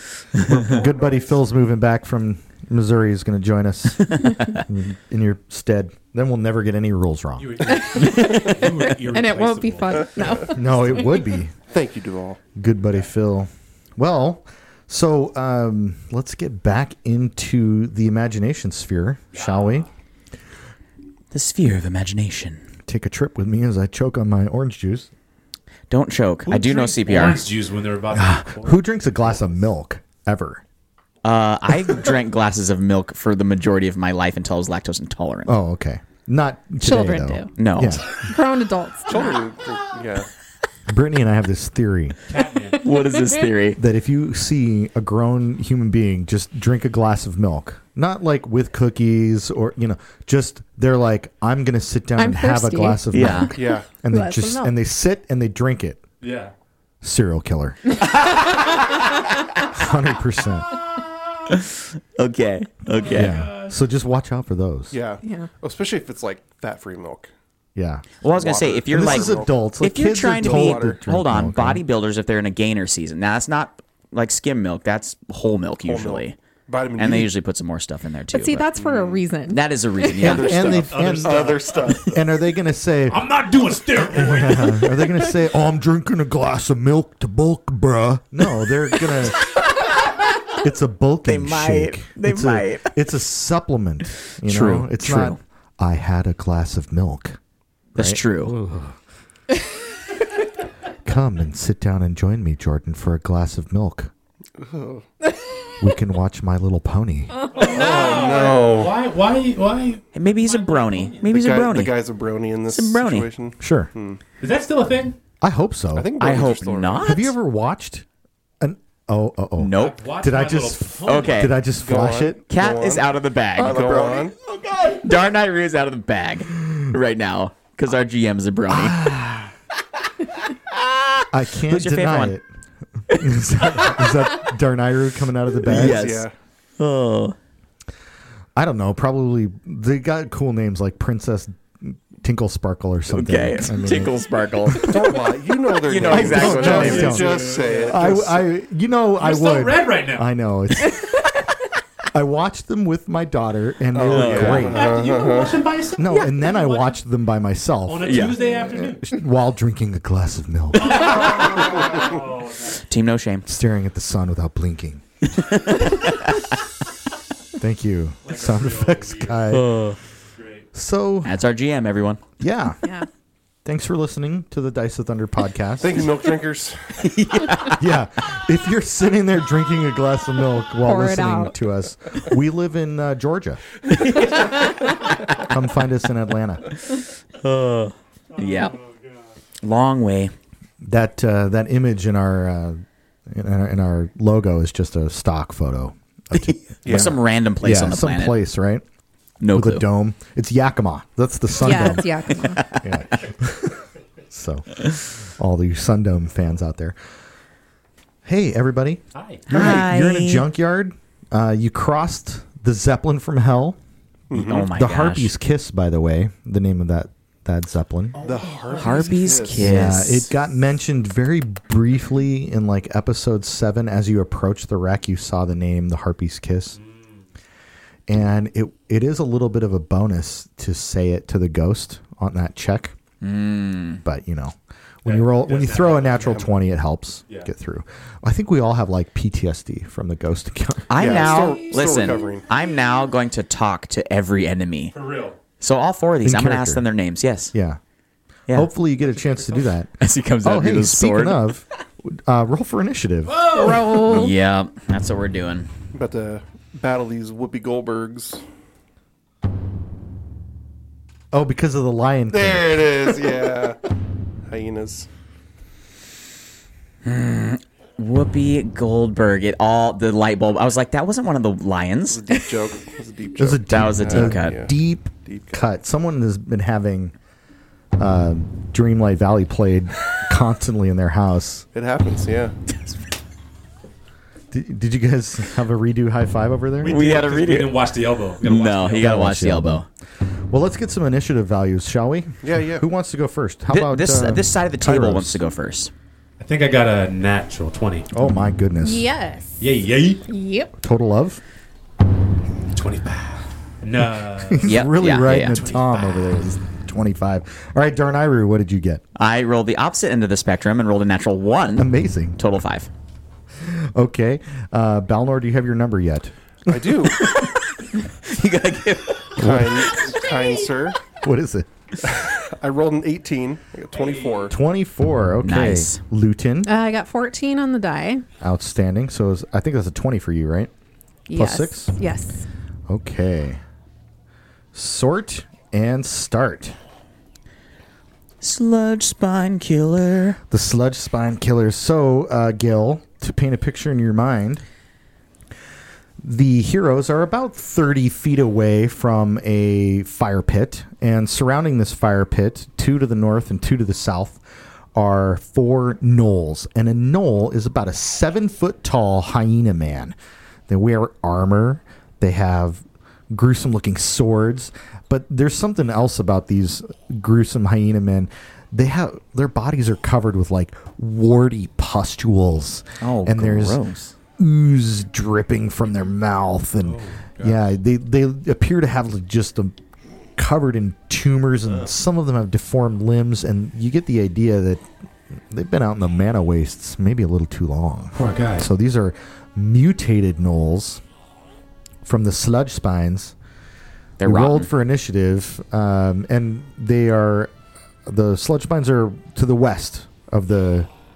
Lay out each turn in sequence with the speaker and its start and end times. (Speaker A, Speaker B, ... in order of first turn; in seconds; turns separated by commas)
Speaker A: 0.4-7.7, Speaker B: 0.7-1.2, Speaker C: 7.4-10.4, Speaker D: 7.7-11.4, Speaker E: 8.1-8.4, Speaker A: 10.5-11.5, Speaker B: 11.7-12.4, Speaker A: 12.5-19.9, Speaker C: 19.4-19.8, Speaker E: 21.3-22.6, Speaker A: 22.9-25.1, Speaker E: 25.9-27.4, Speaker C: 26.4-28.8, Speaker A: 28.1-30.6, Speaker E: 31.2-35.5, Speaker A: 35.5-38.1, Speaker D: 36.8-37.5, Speaker E: 37.6-38.0, Speaker D: 38.1-39.4, Speaker B: 39.1-40.3, Speaker A: 40.9-42.2, Speaker C: 42.3-42.8, Speaker E: 42.8-43.8, Speaker A: 43.8-56.0, Speaker D: 52.2-54.7, Speaker E: 53.1-53.5, Speaker B: 53.5-53.9, Speaker C: 56.2-56.5, Speaker A: 57.0-58.0, Speaker E: 58.2-58.6, Speaker A: 59.7-60.7, Speaker E: 61.5-63.5, Speaker C: 63.0-63.8, Speaker A: 63.1-65.0, Speaker B: 64.9-67.3, Speaker D: 65.2-65.5, Speaker A: 67.7-68.0, Speaker E: 68.2-76.3, Speaker B: 68.3-69.5, Speaker A: 68.9-71.8, Speaker B: 70.2-71.0, Speaker B: 75.8-77.3, Speaker E: 76.9-78.7, Speaker D: 78.3-80.4, Speaker B: 78.8-79.2, Speaker E: 79.5-80.8, Speaker A: 80.2-83.2, Speaker B: 80.2-82.1, Speaker C: 80.7-81.7, Speaker C: 83.1-85.0, Speaker A: 84.0-89.5, Speaker E: 89.1-89.9, Speaker A: 90.5-97.4, Speaker E: 91.2-92.9, Speaker E: 94.4-95.4, Speaker E: 97.9-98.5, Speaker A: 98.0-99.0, Speaker A: 101.0-104.1, Speaker B: 104.6-105.0, Speaker A: 105.8-107.4, Speaker C: 107.5-111.3, Speaker D: 107.5-107.8, Speaker B: 107.6-109.0, Speaker E: 110.1-112.0, Speaker B: 111.2-114.2, Speaker E: 112.7-113.3, Speaker A: 113.6-113.9, Speaker C: 114.4-115.2, Speaker A: 115.4-116.1, Speaker B: 115.9-117.1, Speaker E: 116.2-117.3, Speaker A: 117.0-118.0, Speaker A: 118.6-122.4, Speaker E: 119.6-120.0, Speaker C: 119.8-121.5, Speaker E: 121.0-121.6, Speaker B: 121.7-124.3, Speaker E: 122.5-129.0, Speaker A: 123.7-124.2, Speaker A: 128.7-129.5, Speaker E: 130.7-132.3, Speaker A: 131.3-132.4, Speaker E: 133.1-134.0, Speaker A: 133.1-136.0, Speaker E: 135.7-136.3, Speaker B: 135.7-136.3, Speaker E: 136.8-137.3, Speaker A: 138.6-144.1, Speaker E: 143.1-145.1, Speaker A: 144.7-145.2, Speaker B: 144.8-148.4, Speaker E: 145.8-147.3, Speaker A: 146.1-151.2, Speaker C: 146.5-148.0, Speaker C: 149.2-150.3, Speaker A: 152.1-154.9, Speaker B: 153.9-155.7, Speaker E: 154.0-154.8, Speaker C: 154.5-156.8, Speaker A: 156.0-161.4, Speaker C: 157.9-159.0, Speaker E: 158.0-158.4, Speaker C: 160.8-162.8, Speaker E: 162.7-163.5, Speaker A: 163.4-165.0, Speaker E: 165.2-166.5, Speaker A: 167.6-169.7, Speaker C: 168.2-169.3, Speaker E: 169.5-170.0, Speaker C: 170.4-170.7, Speaker A: 170.7-171.4, Speaker E: 171.2-172.2, Speaker A: 172.4-172.8, Speaker D: 172.8-173.1, Speaker A: 173.6-176.1, Speaker B: 175.8-177.0, Speaker E: 177.0-177.8, Speaker A: 177.8-183.6, Speaker D: 180.8-181.6, Speaker E: 183.9-184.5, Speaker A: 185.3-186.7, Speaker E: 187.4-188.7, Speaker C: 188.4-188.8, Speaker E: 189.6-190.3, Speaker A: 190.8-198.8, Speaker E: 196.8-198.4, Speaker B: 196.8-197.2, Speaker E: 199.4-199.8, Speaker A: 199.5-206.9, Speaker D: 201.6-202.6, Speaker E: 202.4-202.8, Speaker A: 208.2-213.8, Speaker C: 209.1-209.5, Speaker E: 209.5-210.4, Speaker B: 214.3-214.7, Speaker E: 214.3-215.3, Speaker A: 214.7-218.1, Speaker C: 218.1-219.7, Speaker B: 218.2-220.2, Speaker E: 218.8-220.3, Speaker A: 219.6-226.8, Speaker C: 226.8-227.2, Speaker A: 228.1-232.9, Speaker E: 233.2-234.0, Speaker A: 234.0-241.0, Speaker C: 235.0-236.5, Speaker E: 240.9-244.9, Speaker B: 240.9-242.4, Speaker C: 241.1-242.0, Speaker C: 244.9-245.4, Speaker E: 245.6-247.5, Speaker A: 246.2-246.8, Speaker A: 247.5-247.8, Speaker A: 248.5-253.4, Speaker E: 250.0-251.5, Speaker C: 253.3-254.0, Speaker D: 253.5-254.3, Speaker E: 254.0-255.7, Speaker B: 255.9-258.4, Speaker A: 261.3-263.0, Speaker B: 262.3-263.8, Speaker B: 264.5-265.1, Speaker E: 267.0-272.2, Speaker B: 272.1-274.7, Speaker A: 273.4-277.1, Speaker E: 273.7-274.6, Speaker B: 275.2-275.6, Speaker A: 277.9-281.6, Speaker B: 281.7-282.5, Speaker A: 284.5-287.1, Speaker C: 286.8-289.2, Speaker E: 286.9-287.7, Speaker E: 288.4-289.9, Speaker A: 289.0-289.8, Speaker A: 290.5-295.4, Speaker B: 292.4-292.9, Speaker E: 293.7-295.9, Speaker C: 296.4-298.1, Speaker A: 298.1-299.0, Speaker D: 298.8-299.6, Speaker C: 299.6-300.2, Speaker D: 300.3-300.7, Speaker A: 300.8-301.4, Speaker C: 302.7-304.7, Speaker A: 304.3-309.0, Speaker E: 304.6-305.6, Speaker C: 305.5-306.1, Speaker E: 309.2-312.9, Speaker A: 311.8-312.4, Speaker A: 313.6-317.1, Speaker B: 316.7-317.2, Speaker E: 317.1-320.6, Speaker B: 319.4-321.0, Speaker A: 319.4-319.9, Speaker A: 321.2-321.7, Speaker B: 322.1-324.6, Speaker C: 324.1-324.4, Speaker A: 324.5-326.7, Speaker E: 325.4-326.0, Speaker D: 326.6-328.2, Speaker A: 328.4-330.7, Speaker D: 331.3-332.5, Speaker A: 331.3-331.9, Speaker A: 332.9-333.6, Speaker A: 334.7-336.8, Speaker E: 338.4-340.4, Speaker A: 340.5-344.6, Speaker A: 346.2-354.4, Speaker A: 354.9-360.1, Speaker A: 360.7-373.8, Speaker E: 373.0-374.1, Speaker A: 374.4-379.8, Speaker C: 376.8-377.6, Speaker A: 380.4-384.8, Speaker A: 385.5-391.0, Speaker C: 388.1-388.7, Speaker A: 392.0-393.3, Speaker E: 394.2-394.7, Speaker A: 394.2-397.5, Speaker A: 398.1-400.9